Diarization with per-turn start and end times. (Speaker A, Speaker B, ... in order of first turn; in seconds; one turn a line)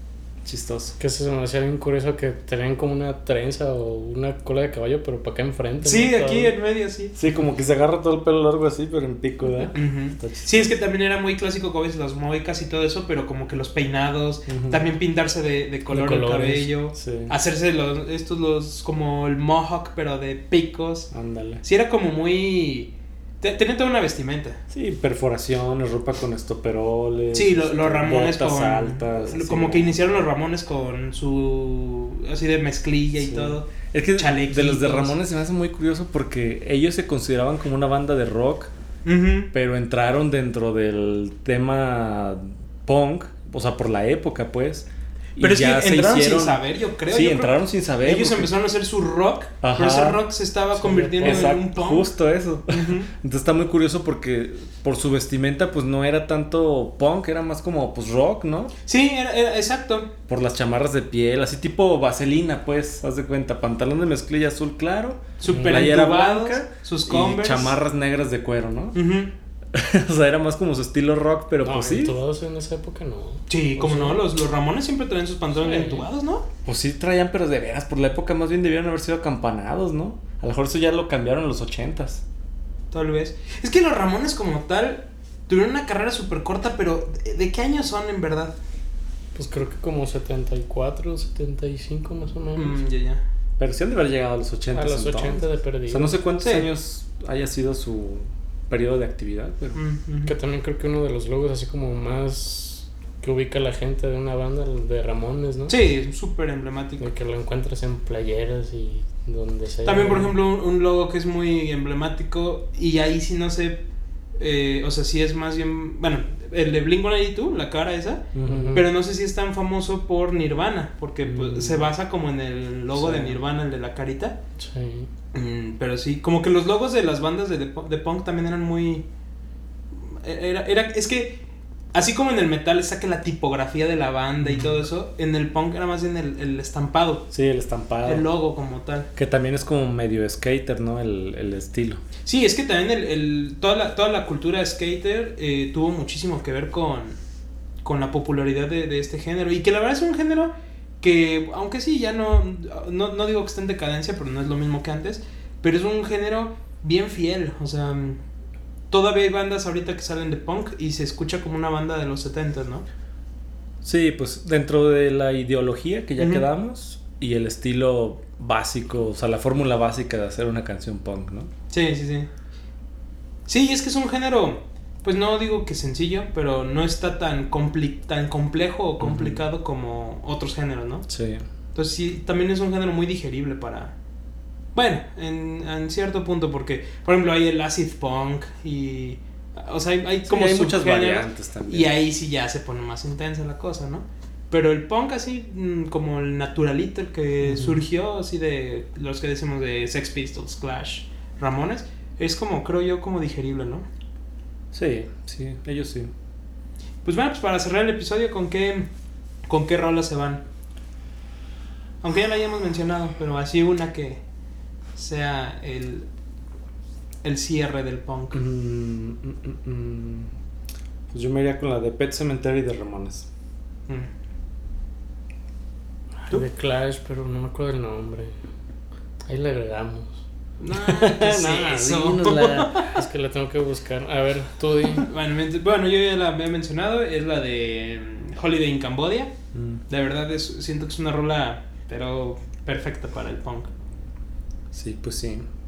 Speaker A: 0.4-1.0
Speaker B: 1.0-6.5
Speaker C: 5.8-7.1
Speaker A: 7.2-10.7
Speaker C: 9.7-21.1
Speaker A: 14.5-14.8
Speaker B: 15.9-16.7
Speaker A: 16.9-17.3
Speaker A: 21.1-21.6
Speaker C: 21.6-24.6
Speaker A: 24.7-30.1
Speaker C: 27.3-35.2
Speaker A: 33.2-38.7
Speaker C: 39.0-39.5
Speaker A: 39.5-48.5
Speaker C: 45.4-52.1
Speaker A: 49.6-50.2
Speaker B: 50.8-51.6
Speaker A: 51.2-58.7
Speaker C: 52.7-53.1
Speaker C: 58.9-60.1
Speaker A: 60.3-69.0
Speaker C: 65.4-67.7
Speaker C: 68.9-69.3
Speaker A: 69.7-72.2
Speaker B: 71.6-74.2
Speaker C: 73.5-76.5
Speaker B: 75.6-76.1
Speaker A: 76.6-82.2
Speaker C: 82.9-88.5
Speaker B: 89.3-92.8
Speaker C: 92.5-93.2
Speaker A: 93.6-99.8
Speaker B: 94.7-96.2
Speaker C: 96.4-96.7
Speaker C: 99.7-100.3
Speaker B: 100.2-105.8
Speaker C: 105.7-107.0
Speaker B: 107.0-110.3
Speaker C: 109.8-113.8
Speaker C: 114.4-124.4
Speaker A: 118.3-118.8
Speaker B: 118.4-118.9
Speaker A: 121.2-121.9
Speaker A: 122.9-123.4
Speaker B: 124.6-125.1
Speaker C: 125.3-129.0
Speaker C: 130.1-131.4
Speaker C: 131.9-137.2
Speaker A: 137.3-138.2
Speaker C: 138.0-139.1
Speaker A: 139.2-142.0
Speaker C: 142.2-147.2
Speaker C: 147.8-158.2
Speaker C: 158.9-162.8
Speaker A: 163.8-171.5
Speaker C: 166.2-166.4
Speaker C: 171.7-172.3
Speaker C: 173.5-181.0
Speaker A: 179.0-179.4
Speaker A: 181.1-181.4
Speaker C: 181.7-183.9
Speaker C: 184.7-203.8
Speaker A: 190.2-191.9
Speaker A: 197.4-197.8
Speaker A: 204.7-206.1
Speaker C: 207.0-208.9
Speaker C: 209.5-210.4
Speaker C: 212.0-214.2
Speaker C: 214.9-216.1
Speaker C: 217.2-218.4
Speaker A: 218.3-220.3
Speaker A: 221.1-223.3
Speaker B: 226.3-228.3
Speaker B: 229.3-230.2
Speaker C: 230.6-232.9
Speaker A: 230.7-232.9
Speaker B: 232.8-235.1
Speaker C: 235.0-239.3
Speaker A: 239.5-239.8
Speaker C: 239.9-243.7
Speaker A: 244.7-245.4